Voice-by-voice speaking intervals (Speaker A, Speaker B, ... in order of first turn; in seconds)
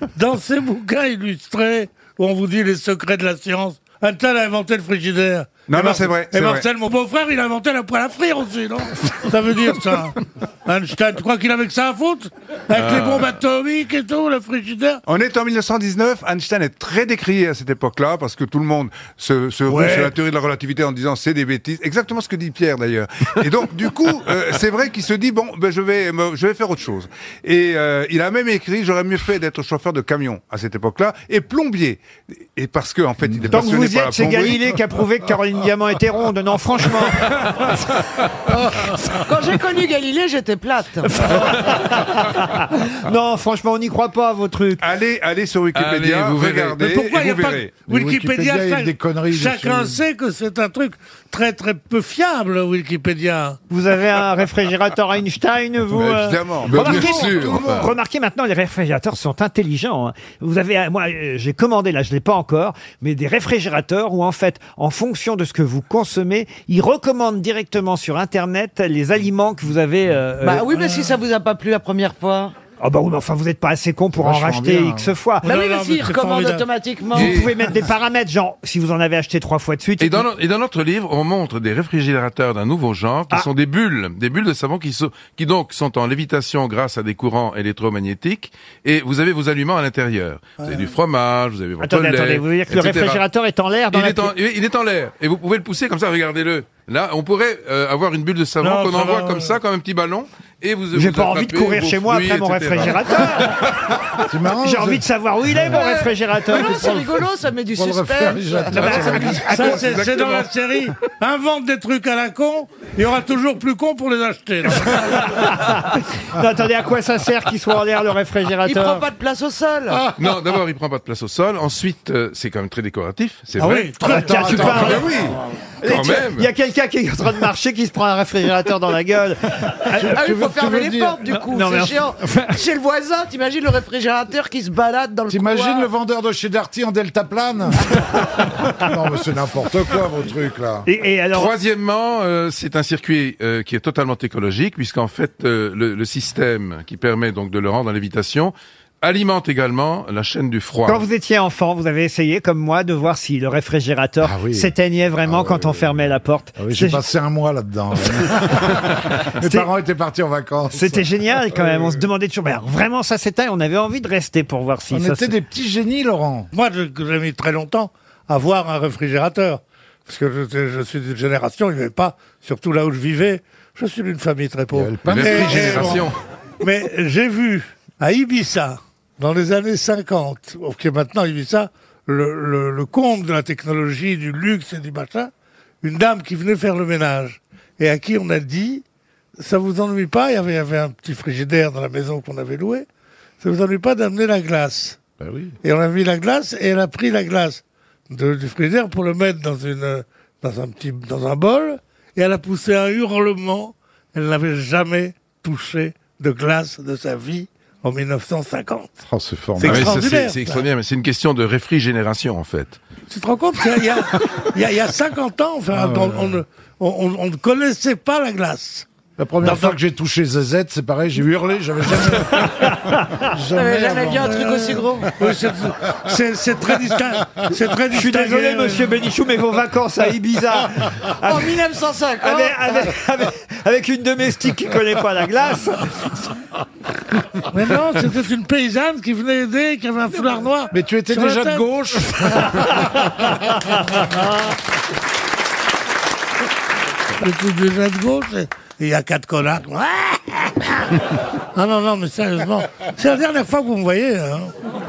Speaker A: 0.1-15.0, 19.7-20.1, 46.8-53.6, 75.5-76.7, 90.6-90.9, 98.6-99.6, 109.4-115.4, 123.6-125.0, 166.5-176.0, 176.6-185.3, 185.8-188.8, 189.4-192.9, 193.4-195.0, 195.6-209.0, 209.6-210.6, 213.1-218.9, 219.4-219.8, 224.2-229.0, 237.5-241.8, 247.2-251.0, 251.6-254.5
Speaker B: 5.7-6.7, 15.1-34.6, 44.8-47.8, 56.1-57.2, 125.0-125.3
Speaker C: 12.8-13.3, 45.7-46.8, 56.0-57.9, 77.2-77.6, 80.0-93.2, 93.9-104.0, 110.0-110.5, 120.2-123.9, 124.4-125.0, 125.8-126.5, 141.3-151.1, 175.1-176.2, 209.6-212.8
Speaker D: 33.5-37.7, 41.1-44.8, 53.7-70.9, 72.8-75.5, 77.1-80.3, 91.8-94.3, 100.9-103.6, 104.6-107.0, 108.7-109.4, 115.1-119.1, 123.6-125.1, 125.8-130.3, 131.3-132.6, 140.9-141.5, 150.8-157.1, 159.4-159.7, 160.7-165.4, 222.4-223.1, 227.9-231.6, 232.2-236.1
Speaker E: 39.2-41.3, 70.4-72.5, 75.4-77.3, 105.7-109.4, 118.6-120.0, 130.1-135.9, 223.5-225.1, 231.3-232.6
Speaker F: 47.9-50.0, 74.2-75.1, 104.3-105.8, 106.5-107.1, 107.7-109.8, 124.1-125.3, 130.0-131.2, 135.3-137.8, 138.4-140.9, 154.2-154.7, 155.2-162.0, 164.9-166.5, 174.7-176.1, 195.2-195.5, 209.1-210.0, 215.7-216.4, 219.2-224.4, 240.7-244.0